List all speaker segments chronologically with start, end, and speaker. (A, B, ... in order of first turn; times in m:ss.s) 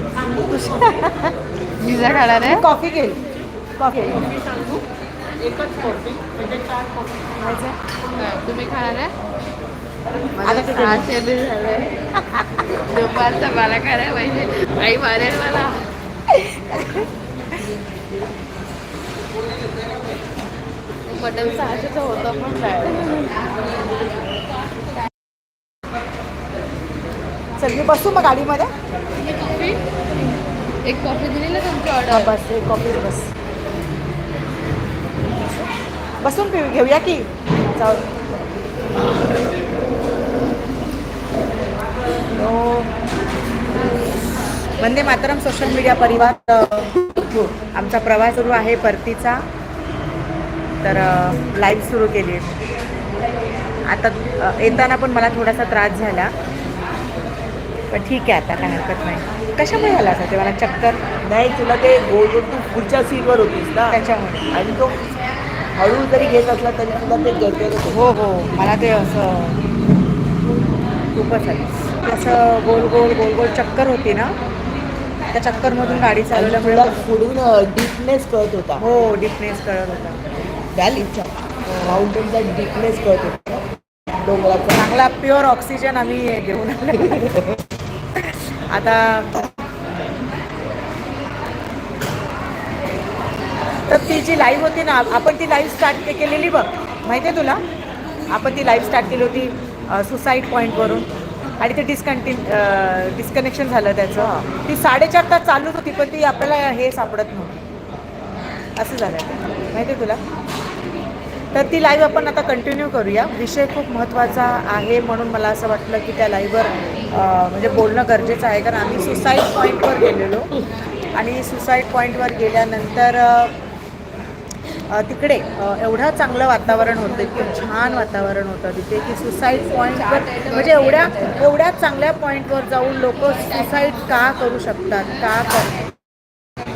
0:00.5-0:01.3 A
0:01.8-0:02.6 B
0:02.4-0:03.2 A
0:03.8-0:04.2 A
0:05.5-0:06.8 B
0:07.4-0:09.1 B
0:10.4-0:11.9 B
0:10.4-0:11.1 A
0:12.2-0:12.5 A
0:12.9-0:15.8 B
0:16.3-0:17.1 A
0:21.1-0:23.4 B
0:27.6-0:28.7 A
0:29.2-0:29.8 B
0:30.8-0:32.4 B
0:32.1-0:33.3 A
0:35.4-0:35.7 A
0:36.2-0:38.0 A
0:42.4-0:42.9 A
0:44.8-0:49.4 A
0:50.8-0:52.6 A
0:53.9-0:56.3 A
0:57.9-1:01.0 A
1:01.2-1:04.0 C
1:03.9-1:04.5 A
1:04.5-1:05.0 C
1:05.8-1:08.0 C
1:07.9-1:09.6 A
1:11.1-1:14.4 A
1:15.3-1:17.0 A
1:16.3-1:18.8 C
1:18.8-1:20.2 A
1:20.7-1:23.6 C
1:24.2-1:24.8 C
1:24.8-1:27.5 A
1:27.1-1:27.6 C
1:28.2-1:29.5 A
1:33.9-1:37.6 A
1:38.3-1:41.1 A
1:41.6-1:47.6 A
1:44.2-1:44.5 C
1:48.8-1:50.2 A
1:51.5-2:00.5 A
2:01.2-2:03.5 A
2:04.9-2:15.9 A
2:10.1-2:11.4 B